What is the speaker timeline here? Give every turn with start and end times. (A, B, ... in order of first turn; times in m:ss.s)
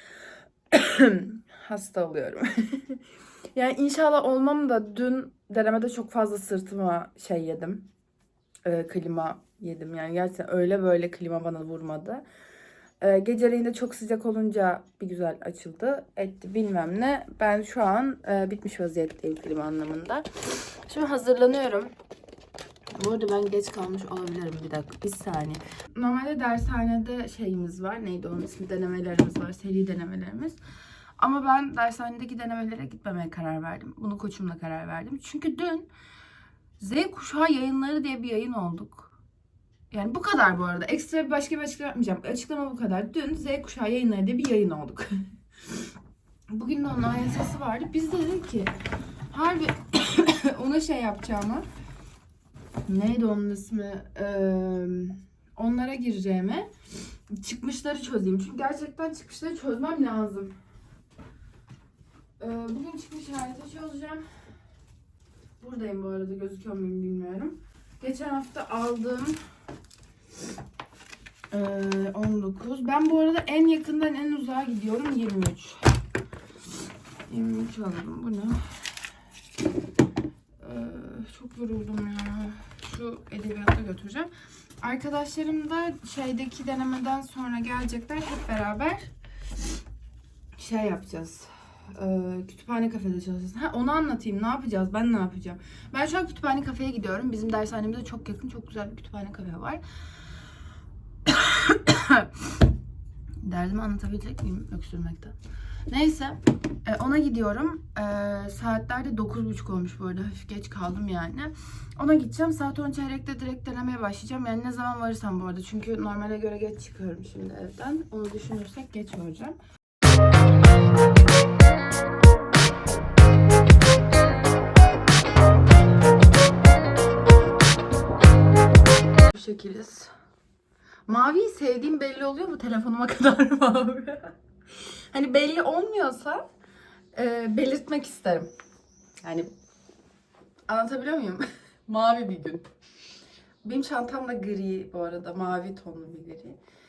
0:00.7-0:03.0 A
0:03.5-0:07.9 A
0:08.6-0:12.2 A
0:13.0-0:21.9 A
0:22.9-0:30.6 A
0:31.2-0:35.9 A
0:36.8-0:39.1 A
0:39.9-0:45.2 A
0:46.5-0:48.8 A
0:49.3-0:51.7 A
0:52.9-0:56.7 A
0:57.3-1:00.6 A
1:02.4-1:04.3 A
1:05.6-1:09.4 A
1:11.5-1:15.9 A
1:17.2-1:18.8 A
1:20.6-1:29.1 A
1:30.6-1:39.8 A
1:41.2-1:42.5 A
1:43.4-1:45.3 A
1:45.9-1:59.6 A
2:09.3-2:10.1 A
2:11.1-2:16.5 A
2:17.1-2:18.5 A
2:19.2-2:19.5 A
2:20.7-2:22.7 A
2:23.6-2:26.6 A